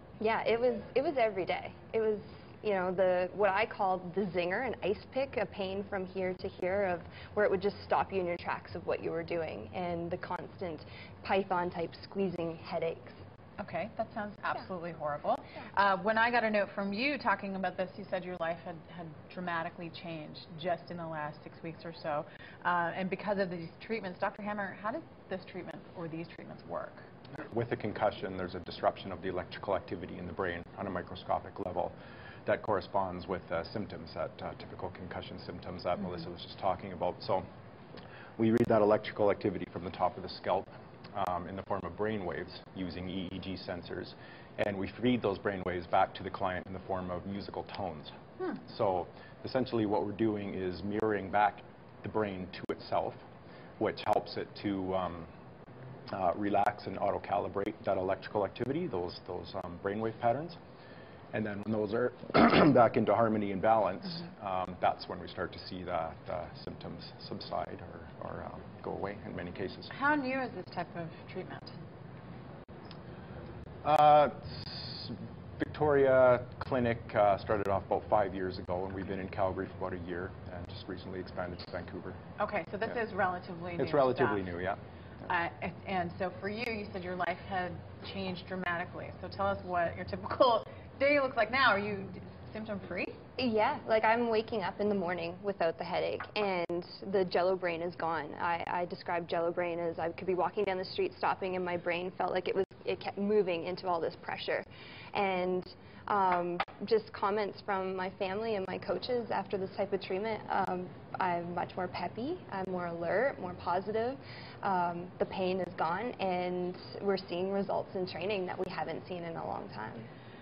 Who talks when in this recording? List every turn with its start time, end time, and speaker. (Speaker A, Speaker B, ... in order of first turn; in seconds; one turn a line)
Speaker A: 0.2-13.2
Speaker B: 13.6-27.1
Speaker C: 27.5-31.9
Speaker C: 32.5-37.4
Speaker C: 38.4-53.2
Speaker C: 53.8-55.3
Speaker C: 56.1-60.6
Speaker C: 61.3-69.9
Speaker B: 69.9-71.7
Speaker C: 73.8-82.2
Speaker B: 82.4-84.5
Speaker C: 83.8-84.8
Speaker B: 85.2-93.2
Speaker A: 93.4-120.1